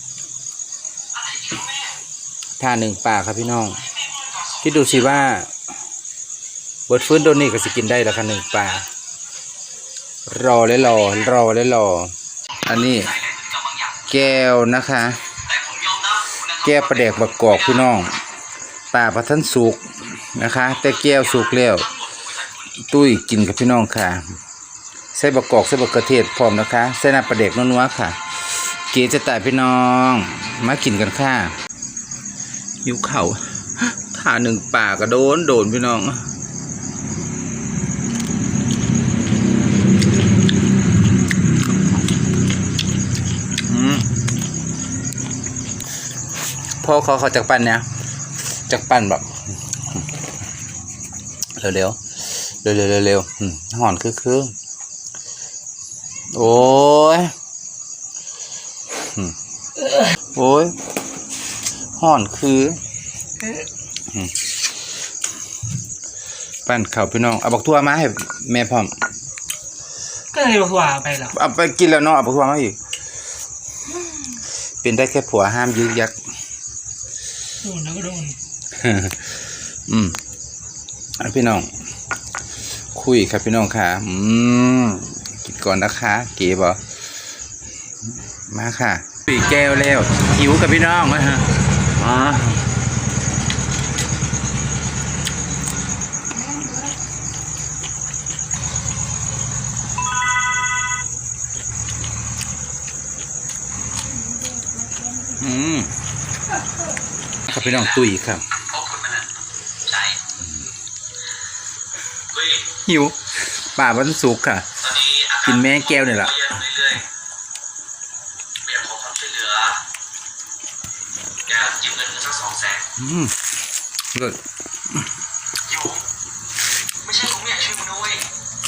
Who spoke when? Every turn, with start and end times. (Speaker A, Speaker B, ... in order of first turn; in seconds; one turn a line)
Speaker A: 1.4-1.6
Speaker B: 2.6-3.9
Speaker B: 4.6-5.5
Speaker B: 6.9-8.9
Speaker B: 10.3-12.1
Speaker B: 12.6-13.2
Speaker B: 14.1-15.2
Speaker A: 15.6-16.4
Speaker B: 16.5-18.2
Speaker B: 18.9-21.9
Speaker B: 22.9-24.3
Speaker B: 25.1-31.6
Speaker B: 32.8-36.3
Speaker B: 43.6-44.1
Speaker B: 46.8-47.9
Speaker B: 48.7-49.4
Speaker B: 51.6-54.5
Speaker B: 56.3-57.3
Speaker B: 59.0-59.4
Speaker B: 59.9-60.8
Speaker B: 62.0-62.8
Speaker B: 64.1-64.3
Speaker B: 66.7-68.9
Speaker C: 70.3-71.3
Speaker B: 71.3-72.8
Speaker B: 74.8-76.2
Speaker C: 77.6-78.4
Speaker B: 78.8-80.2
Speaker B: 81.2-81.7
Speaker B: 82.9-86.8
Speaker B: 88.5-92.7
Speaker C: 96.5-96.8
Speaker C: 104.3-105.2
Speaker B: 105.2-105.9
Speaker B: 107.5-108.5
Speaker A: 108.7-109.3
Speaker A: 109.9-110.2
Speaker A: 112.3-112.6
Speaker B: 112.8-114.7
Speaker A: 114.9-117.0
Speaker B: 115.4-116.8
Speaker A: 118.7-119.8
Speaker A: 121.5-122.8
Speaker B: 123.0-123.3
Speaker B: 124.1-124.4
Speaker A: 125.7-126.0
Speaker A: 127.0-128.2